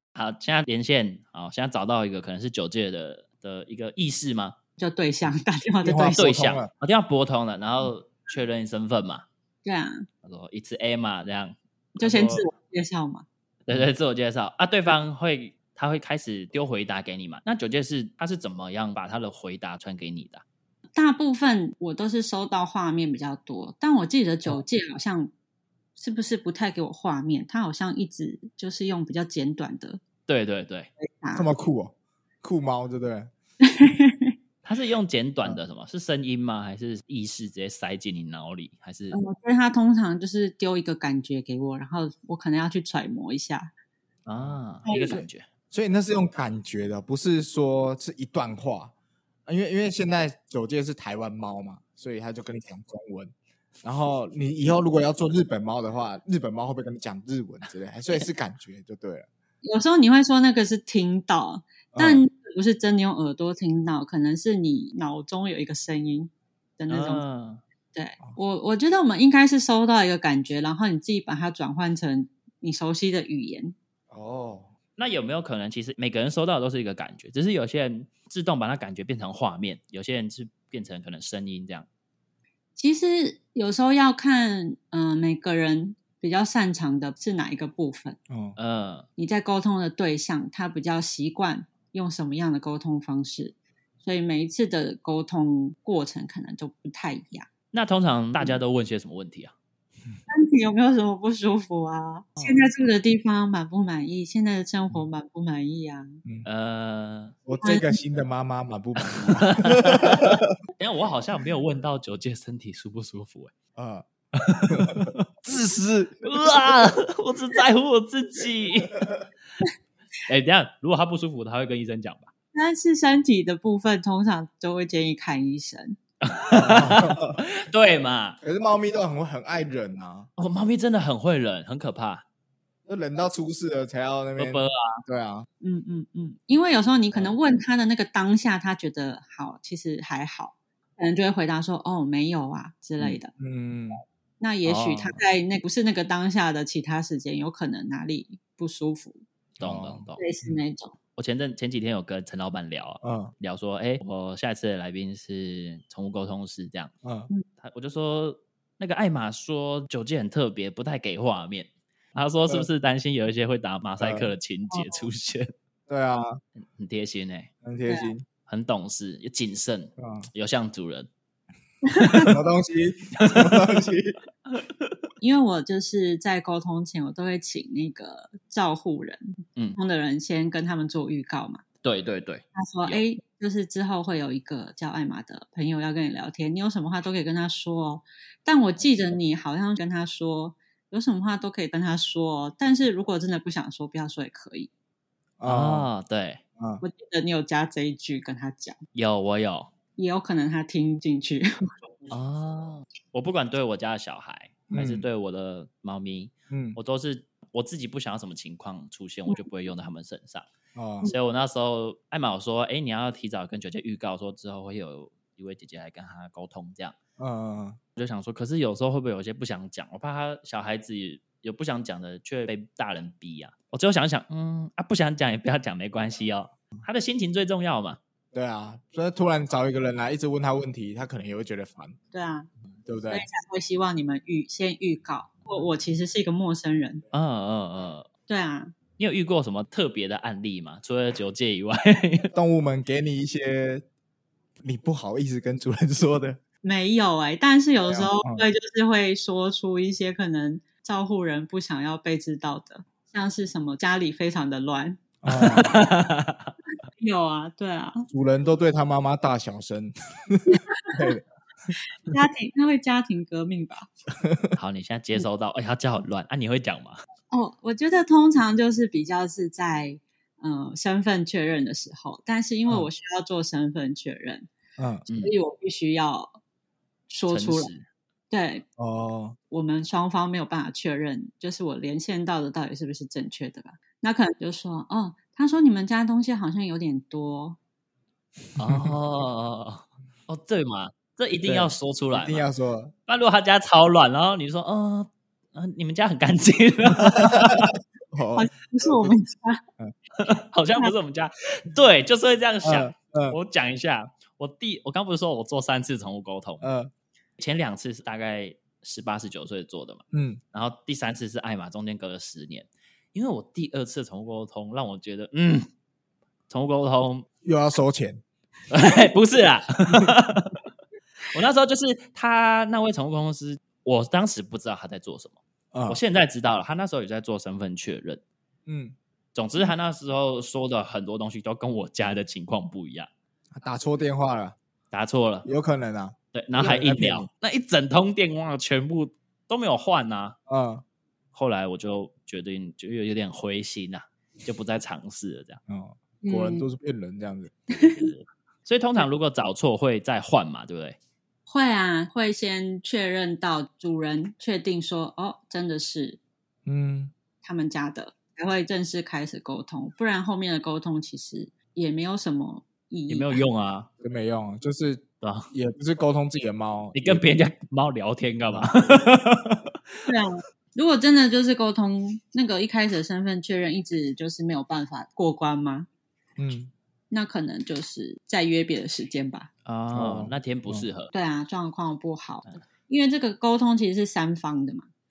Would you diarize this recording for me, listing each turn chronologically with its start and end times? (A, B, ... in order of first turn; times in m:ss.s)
0:00.1-0:04.6 A
0:04.8-0:06.3 B
0:05.8-0:06.7 C
0:06.2-0:09.2 A
0:09.6-0:10.1 B
0:10.2-0:12.4 A
0:12.0-0:13.2 B
0:13.7-0:20.4 A
0:21.0-0:25.3 B
0:26.0-0:30.0 B
0:30.3-0:30.9 A
0:31.0-0:31.5 B
0:31.3-0:33.3 C
0:33.6-0:34.3 B
0:34.6-0:39.2 A
0:39.1-0:43.7 B
0:44.2-0:45.4 A
0:44.8-0:45.2 B
0:45.1-0:48.9 C
0:49.4-0:59.3 C
0:59.6-1:07.2 B
1:01.9-1:02.2 C
1:06.9-1:07.6 A
1:07.9-1:13.7 B
1:14.1-1:14.7 C
1:15.0-1:21.9 A
1:22.8-1:28.2 B
1:28.3-1:28.6 C
1:28.6-1:29.1 A
1:29.2-1:37.5 B
1:37.7-1:39.5 A
1:40.3-1:46.2 B
1:46.4-1:47.4 A
1:47.4-1:50.5 C
1:47.6-1:47.9 B
1:49.0-1:53.5 A
1:53.7-1:54.0 C
1:54.4-1:55.2 A
1:54.7-1:56.8 C
1:56.2-1:59.1 A
2:00.3-2:02.3 A
2:02.5-2:06.0 B
2:06.2-2:08.4 A
2:06.5-2:07.4 C
2:08.4-2:10.3 C
2:10.4-2:12.2 A
2:12.9-2:15.4 C
2:14.4-2:15.0 A
2:15.6-2:23.3 B
2:23.0-2:24.0 C
2:24.4-2:29.2 B
2:24.6-2:25.2 A
2:29.6-2:30.2 A
2:29.6-2:30.6 C
2:30.2-2:31.0 B
2:31.2-2:36.9 A
2:33.0-2:33.3 C
2:37.0-2:37.3 C
2:37.6-2:45.5 A
2:44.0-2:44.3 C
2:45.9-2:46.4 C
2:46.6-2:47.5 A
2:47.6-2:48.2 C
2:47.9-2:48.1 B
2:48.4-2:51.1 A
2:50.0-2:50.3 C
2:51.8-2:52.3 B
2:52.0-2:52.2 A
2:52.2-2:54.2 C
2:53.2-2:53.7 A
2:54.6-2:54.9 A
2:55.2-3:01.6 B
3:01.8-3:03.0 A
3:02.5-3:14.7 B
3:15.4-3:15.9 C
3:15.4-3:16.4 A
3:16.6-3:16.8 C
3:16.8-3:18.8 B
3:18.9-3:19.7 A
3:20.0-3:21.5 B
3:22.1-3:30.5 A
3:24.7-3:25.0 C
3:26.5-3:26.8 C
3:30.7-3:31.1 C
3:31.0-3:37.0 A
3:37.2-3:37.8 C
3:38.0-3:48.0 A
3:48.3-3:52.0 C
3:52.1-3:52.5 B
3:52.8-3:53.2 C
3:53.1-3:57.0 B
3:57.1-3:58.1 A
3:58.3-3:58.7 B
3:59.0-4:02.3 A
4:02.3-4:03.8 C
4:04.6-4:06.4 C
4:06.6-4:15.0 B
4:07.8-4:08.4 C
4:15.2-4:15.7 C
4:15.3-4:16.5 A
4:17.0-4:18.1 B
4:18.1-4:21.2 C
4:20.5-4:21.1 B
4:22.1-4:23.9 B
4:24.2-4:24.5 C
4:24.6-4:27.0 A
4:27.3-4:34.5 B
4:34.8-4:35.0 C
4:35.2-4:36.4 B
4:37.1-4:37.7 B
4:37.3-4:37.8 A
4:38.3-4:38.6 B
4:38.8-4:39.4 C
4:39.5-4:47.6 B
4:48.6-4:52.5 A
4:48.6-4:48.9 C
4:51.4-4:52.9 C
4:53.1-4:57.7 A
4:57.1-4:59.1 C
4:58.3-4:59.6 B
5:00.2-5:06.7 A
5:02.6-5:03.4 C
5:06.6-5:06.9 C
5:07.4-5:15.7 A
5:10.1-5:10.4 C
5:16.5-5:17.3 A
5:17.4-5:18.2 C
5:18.7-5:20.6 A
5:21.2-5:28.2 A
5:25.7-5:26.0 C
5:28.6-5:29.0 C
5:29.3-5:33.1 A
5:33.5-5:34.6 C
5:34.9-5:35.5 A
5:35.4-5:37.3 C
5:36.3-5:40.4 A
5:40.5-5:40.8 C
5:41.3-5:45.6 A
5:45.7-5:47.5 C
5:46.2-5:46.7 B
5:47.8-5:48.1 B
5:47.8-5:51.0 A
5:51.5-5:56.2 B
5:56.6-5:57.1 C
5:57.4-6:03.4 B
6:03.1-6:03.9 A
6:04.0-6:07.2 C
6:05.2-6:05.5 A
6:06.9-6:10.0 A
6:08.5-6:08.7 C
6:10.0-6:15.9 B
6:16.4-6:16.7 C
6:17.1-6:19.5 B
6:19.6-6:21.1 A
6:19.9-6:20.8 C
6:21.1-6:24.9 B